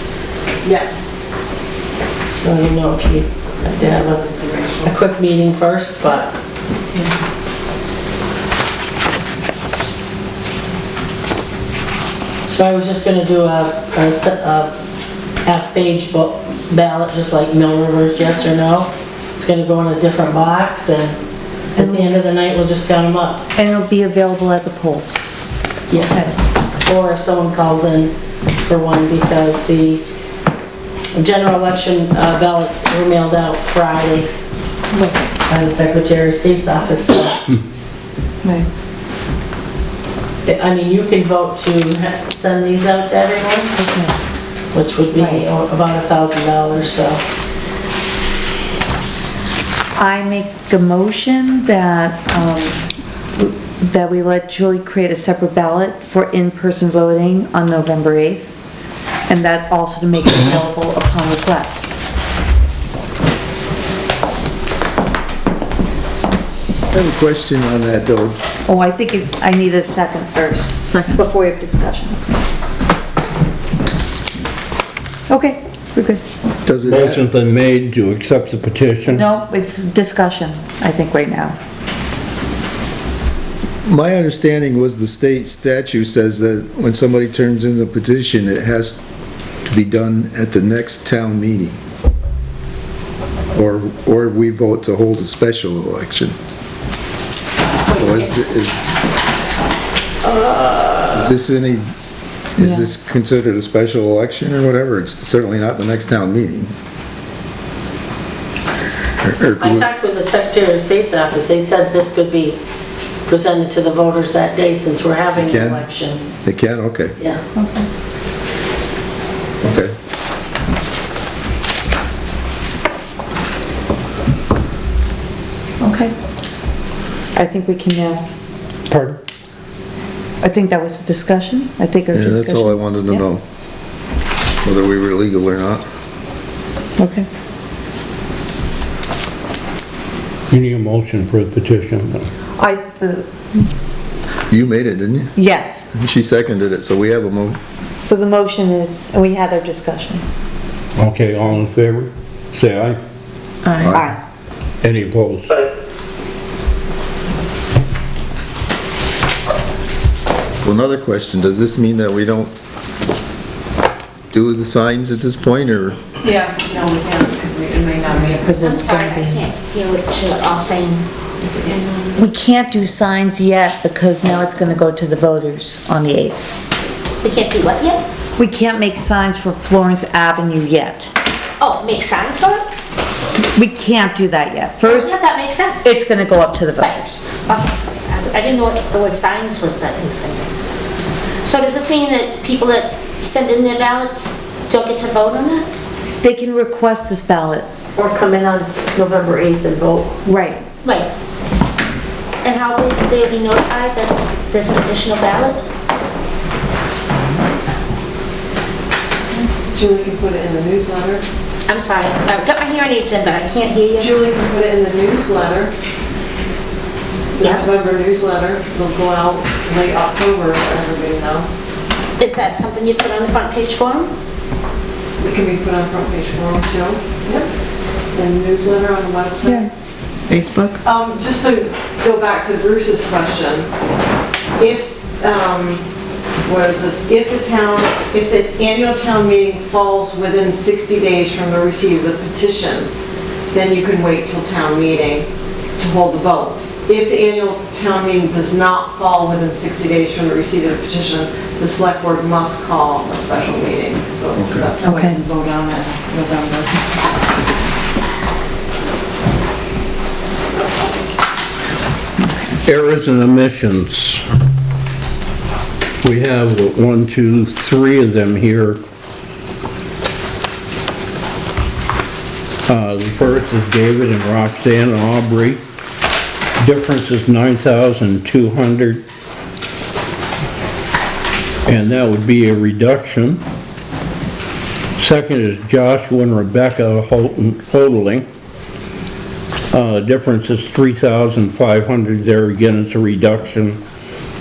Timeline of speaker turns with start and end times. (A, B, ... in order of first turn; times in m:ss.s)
0:00.6-0:01.1 A
0:02.3-0:04.2 B
0:03.8-0:04.9 A
0:04.8-0:06.3 B
0:12.4-0:14.8 B
0:15.4-0:21.2 B
0:21.8-0:22.2 C
0:21.8-0:23.4 B
0:23.5-0:25.2 C
0:25.9-0:28.1 B
0:26.0-0:26.3 C
0:28.6-0:30.0 B
0:31.1-0:34.3 B
0:34.9-0:35.2 C
0:35.4-0:37.4 B
0:40.4-0:43.7 B
0:43.8-0:44.2 C
0:44.7-0:47.2 B
0:45.2-0:45.4 C
0:50.0-0:52.8 C
0:53.4-0:58.5 C
0:59.3-1:01.8 C
1:06.9-1:08.4 D
1:08.6-1:12.3 C
1:15.3-1:16.2 C
1:16.6-1:17.3 D
1:16.8-1:19.2 E
1:19.0-1:21.6 C
1:23.8-1:29.0 D
1:29.6-1:31.8 D
1:33.5-1:36.4 D
1:37.8-1:38.8 D
1:40.4-1:40.9 B
1:41.1-1:41.9 D
1:42.6-1:46.7 D
1:42.6-1:42.9 C
1:49.2-1:49.9 D
1:49.6-1:52.6 B
1:53.3-1:56.2 B
1:55.4-1:55.8 D
1:56.4-1:57.2 D
1:57.5-1:57.9 C
1:59.6-1:59.9 D
2:05.8-2:06.1 C
2:07.3-2:08.2 C
2:08.9-2:09.2 E
2:10.4-2:13.2 C
2:12.1-2:13.4 D
2:14.6-2:15.8 D
2:17.0-2:17.3 C
2:20.5-2:22.3 E
2:22.6-2:23.7 C
2:24.5-2:25.3 D
2:25.3-2:25.9 C
2:25.9-2:27.6 D
2:28.0-2:30.2 C
2:31.0-2:33.0 E
2:33.8-2:34.0 D
2:33.9-2:34.2 C
2:34.8-2:35.6 E
2:40.6-2:42.5 D
2:44.3-2:46.0 D
2:46.2-2:48.5 A
2:48.4-2:49.4 C
2:48.6-2:51.0 F
2:51.4-2:52.2 A
2:52.2-2:56.4 C
2:57.2-2:58.0 F
2:58.4-3:01.1 C
3:01.6-3:02.6 F
3:03.5-3:05.1 C
3:04.9-3:05.9 F
3:05.8-3:07.2 C
3:06.8-3:10.5 F
3:11.4-3:15.7 F
3:16.2-3:17.7 C
3:17.9-3:20.2 B
3:20.2-3:20.6 C
3:20.8-3:21.1 F
3:22.4-3:25.6 F
3:29.7-3:31.2 A
3:31.6-3:34.2 F
3:34.0-3:35.7 A
3:37.4-3:41.5 A
3:42.2-3:44.1 F
3:45.2-3:47.5 A
3:48.1-3:49.7 A
3:49.4-3:49.7 C
3:50.8-3:53.7 A
3:54.6-3:55.8 A
3:56.4-4:02.9 A
4:03.5-4:17.0 A
4:14.3-4:14.7 D
4:14.8-4:15.2 C
4:22.2-4:22.6 C
4:22.6-4:24.2 E
4:26.0-4:28.8 E
4:32.6-4:35.6 E
4:36.6-4:39.0 E
4:41.6-4:43.4 E
4:45.0-4:48.2 E
4:49.7-4:53.8 E